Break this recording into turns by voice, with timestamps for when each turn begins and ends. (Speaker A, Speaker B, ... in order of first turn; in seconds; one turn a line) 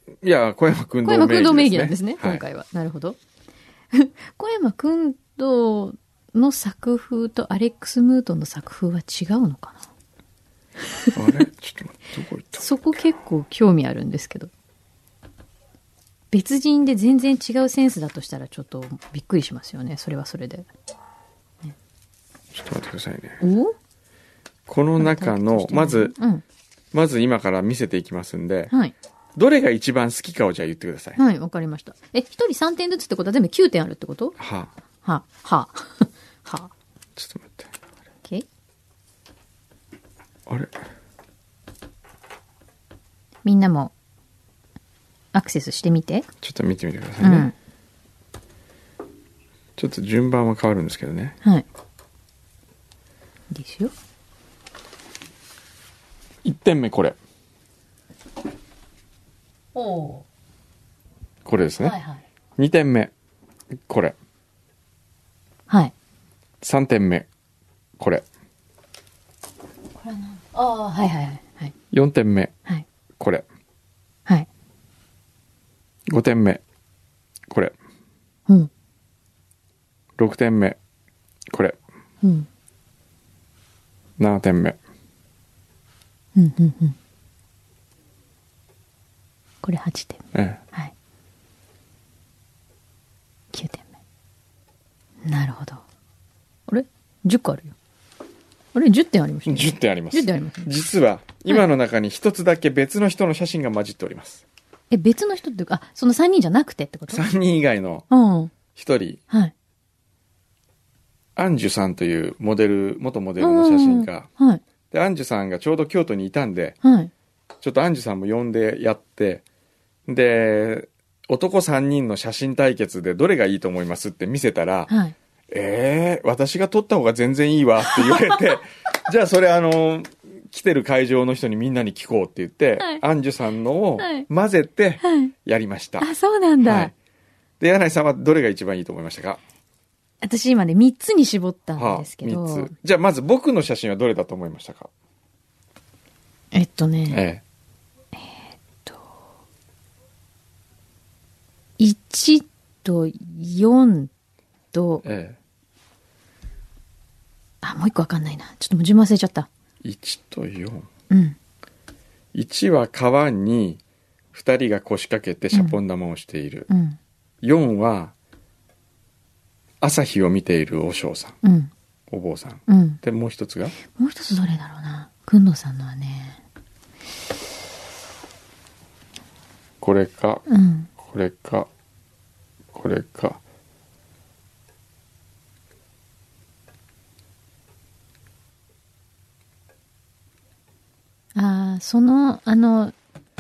Speaker A: 0.2-2.4
Speaker B: 1.0-3.2
Speaker B: 3.9-9.8
Speaker A: 11.1-12.7
Speaker B: 12.6-14.5
Speaker B: 16.3-20.7
Speaker A: 22.5-23.4
Speaker B: 23.4-23.8
Speaker A: 24.7-26.1
Speaker B: 25.0-26.4
Speaker A: 26.9-28.7
Speaker A: 29.4-31.2
Speaker B: 31.2-34.4
Speaker A: 34.4-34.7
Speaker B: 35.0-36.7
Speaker A: 37.2-37.7
Speaker A: 40.5-40.8
Speaker B: 43.5-43.9
Speaker B: 45.3-46.3
Speaker A: 46.4-47.5
Speaker B: 47.2-47.5
Speaker A: 49.8-51.4
Speaker B: 53.5-53.9
Speaker A: 56.4-57.2
Speaker B: 59.8-60.2
Speaker A: 61.5-62.0
Speaker B: 61.8-62.2
Speaker A: 62.6-63.1
Speaker A: 63.9-64.2
Speaker A: 66.6-67.3
Speaker A: 68.0-68.3
Speaker B: 70.0-71.7
Speaker A: 71.9-72.5
Speaker A: 73.2-73.5
Speaker A: 76.1-76.6
Speaker A: 77.5-77.8
Speaker A: 80.2-80.8
Speaker A: 81.5-81.8
Speaker B: 82.2-82.5
Speaker A: 84.2-84.8
Speaker B: 86.4-87.0
Speaker B: 89.6-90.9
Speaker A: 90.3-90.6
Speaker B: 93.5-93.8
Speaker B: 95.2-95.8
Speaker B: 96.7-97.7
Speaker B: 98.8-100.7
Speaker A: 99.5-104.4
Speaker B: 104.9-107.2
Speaker A: 107.1-108.1
Speaker B: 108.1-108.5
Speaker A: 108.7-109.2
Speaker A: 111.4-114.3
Speaker B: 113.4-114.6
Speaker A: 114.9-116.8
Speaker B: 116.8-117.1
Speaker A: 117.6-119.4
Speaker A: 120.1-124.9
Speaker B: 124.9-125.2
Speaker A: 125.5-136.1
Speaker B: 134.0-134.3
Speaker B: 135.0-135.3
Speaker B: 136.0-136.9
Speaker A: 136.6-136.9
Speaker A: 137.6-139.4
Speaker B: 140.2-142.7
Speaker A: 141.8-144.9
Speaker B: 146.5-147.2
Speaker A: 147.1-147.4
Speaker B: 148.2-149.1
Speaker B: 151.8-154.1
Speaker B: 154.7-155.0
Speaker A: 155.0-155.4
Speaker B: 157.6-159.5
Speaker A: 159.8-160.9
Speaker B: 161.1-161.4
Speaker A: 162.3-163.8
Speaker A: 164.3-166.7
Speaker B: 165.5-165.8
Speaker B: 166.7-167.0
Speaker A: 167.4-168.1
Speaker A: 169.8-171.4
Speaker B: 171.4-171.7
Speaker A: 172.1-173.8
Speaker B: 172.7-173.0
Speaker B: 173.9-176.4
Speaker A: 179.8-180.5
Speaker B: 180.5-180.9
Speaker A: 181.0-181.7
Speaker A: 182.7-183.4
Speaker B: 191.3-192.9